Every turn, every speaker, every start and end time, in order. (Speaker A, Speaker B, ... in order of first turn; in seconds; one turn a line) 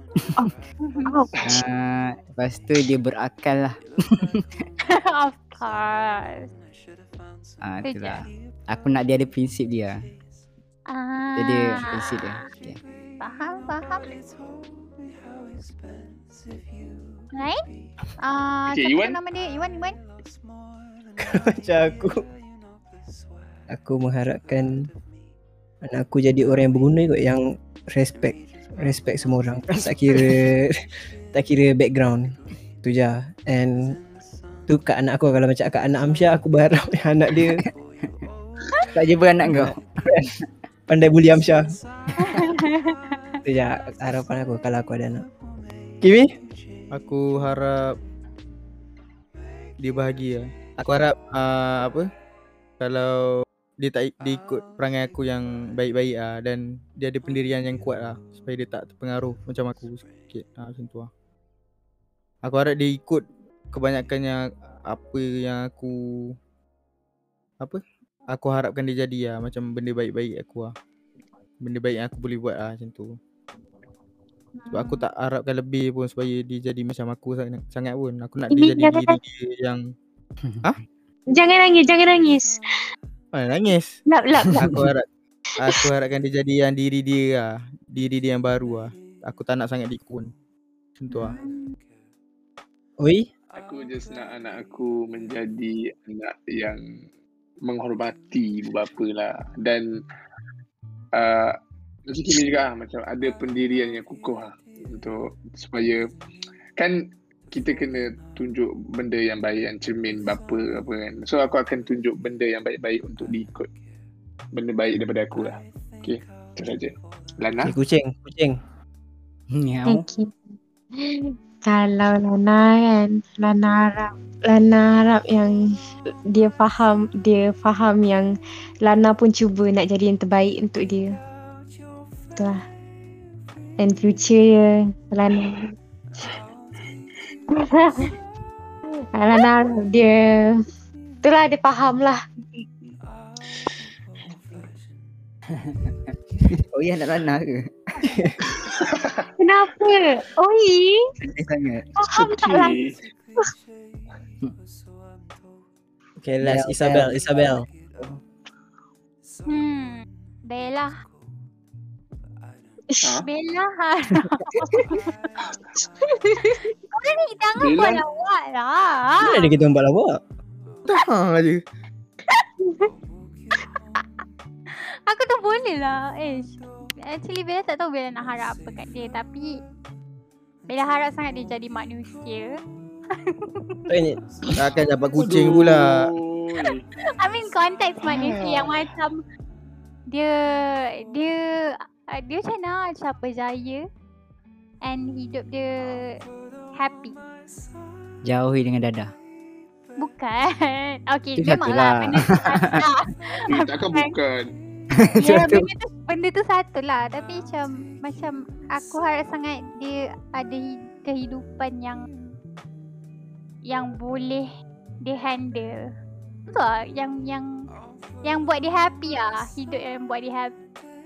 Speaker A: 0.4-1.3
Speaker B: 0.8-1.1
Speaker C: 1.4-4.6
Speaker B: 4.9-6.5
Speaker C: 7.6-10.0
Speaker B: 7.8-8.2
Speaker B: 10.9-12.4
Speaker C: 11.4-12.8
Speaker B: 13.2-14.2
Speaker B: 17.3-17.6
Speaker B: 18.2-20.0
Speaker D: 18.7-19.2
Speaker E: 21.2-22.2
Speaker E: 23.7-24.7
Speaker E: 25.8-30.7
Speaker E: 31.3-32.3
Speaker E: 32.8-33.7
Speaker E: 34.7-37.6
Speaker C: 37.4-37.6
Speaker C: 38.9-39.8
Speaker E: 39.5-40.3
Speaker E: 40.9-41.6
Speaker B: 42.2-43.2
Speaker E: 43.4-45.2
Speaker E: 46.0-46.3
Speaker F: 46.9-47.9
Speaker F: 49.8-52.1
Speaker F: 52.8-61.1
Speaker F: 62.4-66.3
Speaker F: 67.6-70.7
Speaker F: 71.6-73.1
Speaker B: 74.6-75.0
Speaker F: 74.7-79.8
Speaker A: 78.5-79.2
Speaker C: 80.4-80.7
Speaker A: 81.3-82.6
Speaker F: 83.3-83.9
Speaker A: 84.1-84.7
Speaker F: 84.5-85.1
Speaker F: 85.6-90.3
Speaker F: 91.0-91.3
Speaker B: 91.1-91.8
Speaker E: 93.0-93.3
Speaker D: 93.5-96.8
Speaker D: 97.6-100.0
Speaker D: 101.1-101.5
Speaker D: 102.1-106.0
Speaker D: 106.8-113.7
Speaker D: 114.5-117.7
Speaker E: 117.6-118.6
Speaker C: 119.5-120.0
Speaker A: 119.8-120.3
Speaker A: 121.0-125.5
Speaker A: 126.3-128.3
Speaker A: 128.8-131.1
Speaker A: 132.3-132.6
Speaker A: 133.8-135.7
Speaker A: 137.5-138.1
Speaker A: 139.1-140.6
Speaker A: 141.2-142.2
Speaker C: 145.6-147.9
Speaker E: 148.0-148.4
Speaker D: 148.5-149.2
Speaker A: 149.4-151.1
Speaker C: 151.3-151.9
Speaker A: 151.9-152.8
Speaker D: 152.1-153.0
Speaker E: 156.2-157.6
Speaker C: 156.4-158.2
Speaker B: 159.5-161.0
Speaker D: 163.0-163.3
Speaker B: 163.2-165.1
Speaker A: 164.7-165.0
Speaker A: 165.8-166.7
Speaker B: 166.9-169.5
Speaker D: 167.6-168.0
Speaker E: 169.2-170.2
Speaker F: 170.8-171.6
Speaker A: 172.6-172.9
Speaker B: 174.7-179.6
Speaker B: 180.7-182.6
Speaker B: 183.1-183.8
Speaker E: 183.9-184.2
Speaker F: 184.6-186.0
Speaker D: 185.2-186.8
Speaker B: 186.6-189.2
Speaker D: 188.0-188.9
Speaker B: 190.1-193.9
Speaker B: 194.8-196.2
Speaker B: 196.8-197.2
Speaker C: 198.2-199.1
Speaker B: 200.0-204.1
Speaker C: 201.4-202.8
Speaker D: 203.5-204.5
Speaker C: 204.9-205.7
Speaker B: 205.2-212.1
Speaker B: 213.7-214.5
Speaker B: 215.0-215.7
Speaker B: 216.5-217.5
Speaker B: 218.2-220.5